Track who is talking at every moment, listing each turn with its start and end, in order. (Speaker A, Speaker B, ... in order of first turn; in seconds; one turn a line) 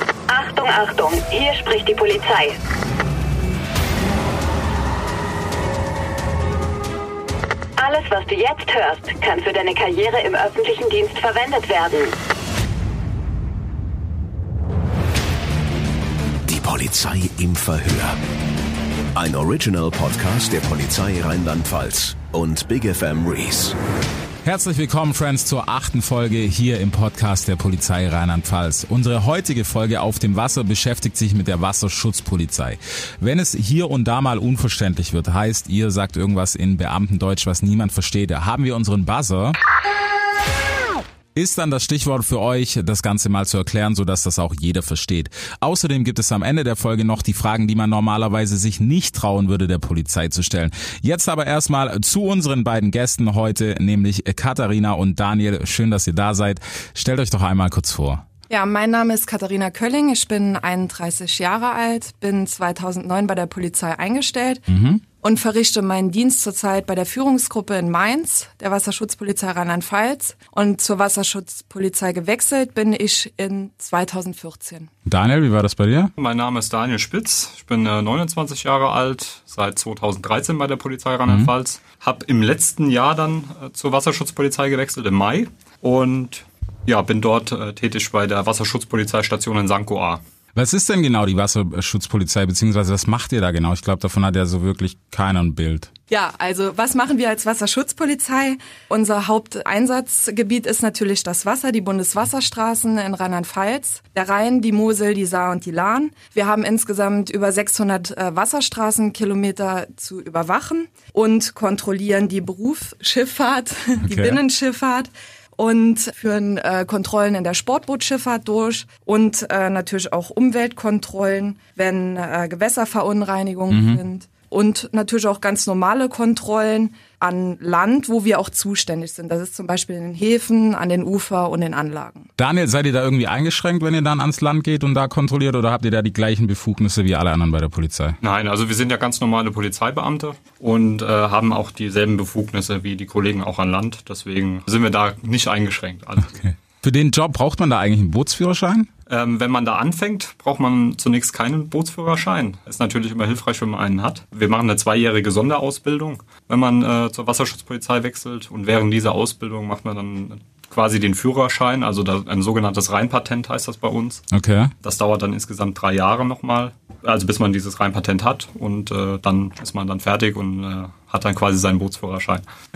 Speaker A: 0.3-2.6
Speaker A: 7.8-12.1
Speaker B: 16.4-18.2
Speaker B: 19.1-23.7
Speaker C: 24.4-39.6
Speaker C: 41.3-58.2
Speaker D: 58.5-64.6
Speaker C: 64.7-65.0
Speaker D: 65.2-74.9
Speaker C: 75.0-76.1
Speaker E: 76.2-90.2
Speaker C: 81.2-81.5
Speaker C: 90.5-95.9
Speaker D: 96.1-132.3
Speaker C: 114.0-114.4
Speaker C: 123.7-124.0
Speaker C: 132.4-138.2
Speaker E: 138.2-146.4
Speaker C: 146.4-148.9
Speaker E: 149.1-164.2
Speaker C: 164.3-164.7
Speaker E: 164.8-172.4